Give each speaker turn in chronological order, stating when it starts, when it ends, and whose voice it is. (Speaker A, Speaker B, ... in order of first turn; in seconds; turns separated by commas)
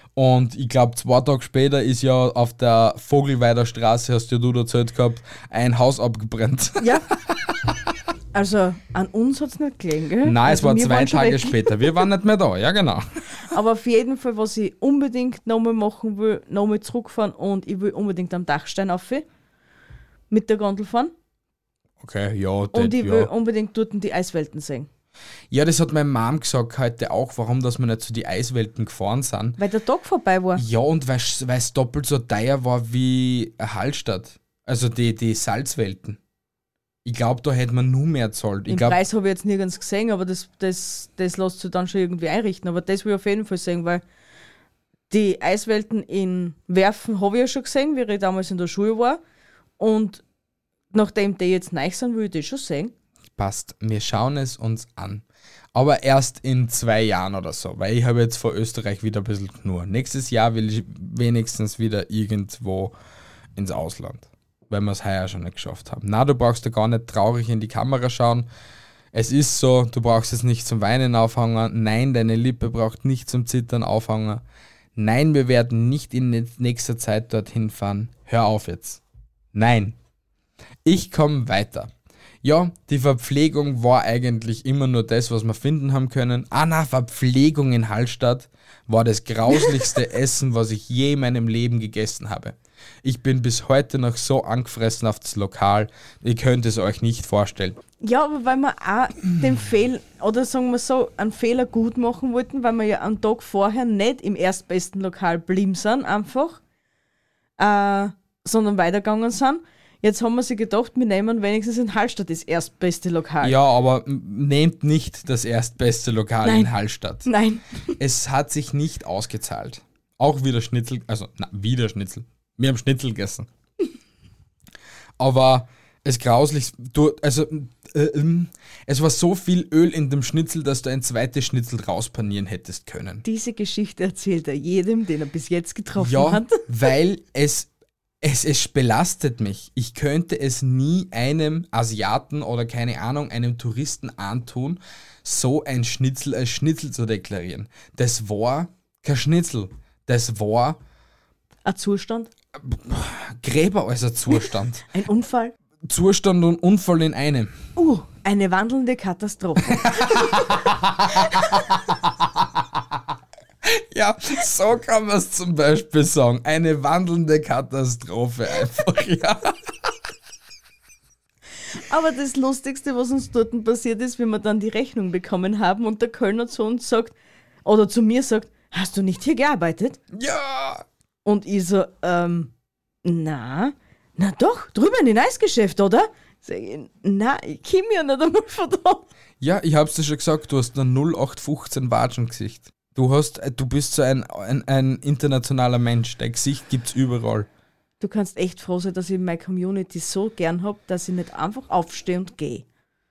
Speaker A: 0.2-6.9, Speaker B: 6.8-7.1, Speaker B: 8.3-11.6, Speaker A: 10.2-13.1, Speaker B: 13.5-19.3, Speaker B: 20.3-21.1, Speaker A: 22.0-23.3, Speaker B: 22.7-24.9, Speaker A: 25.5-29.6, Speaker B: 29.6-30.6, Speaker A: 30.6-36.2, Speaker A: 37.0-39.0, Speaker B: 38.7-44.0, Speaker B: 45.1-49.2, Speaker B: 49.8-50.2, Speaker B: 50.9-52.9, Speaker A: 53.4-63.0, Speaker A: 63.6-68.5, Speaker A: 69.1-74.4, Speaker A: 75.0-79.0, Speaker A: 79.5-80.0, Speaker A: 80.8-81.9, Speaker A: 82.4-97.8, Speaker B: 98.0-106.6, Speaker B: 107.6-113.6, Speaker A: 113.4-117.3, Speaker B: 116.4-116.7, Speaker B: 117.2-117.6, Speaker A: 118.0-123.5, Speaker A: 125.2-133.2, Speaker B: 133.2-136.6, Speaker A: 136.0-137.7, Speaker A: 138.2-150.8, Speaker B: 151.7-152.3, Speaker A: 152.6-154.9, Speaker B: 154.9-155.6, Speaker A: 155.8-157.6, Speaker B: 157.8-160.5, Speaker A: 159.7-162.5, Speaker A: 163.7-169.7, Speaker B: 171.7-180.0, Speaker A: 180.1-180.9, Speaker B: 181.2-182.5, Speaker B: 183.0-189.1, Speaker A: 189.4-197.5, Speaker B: 198.0-202.7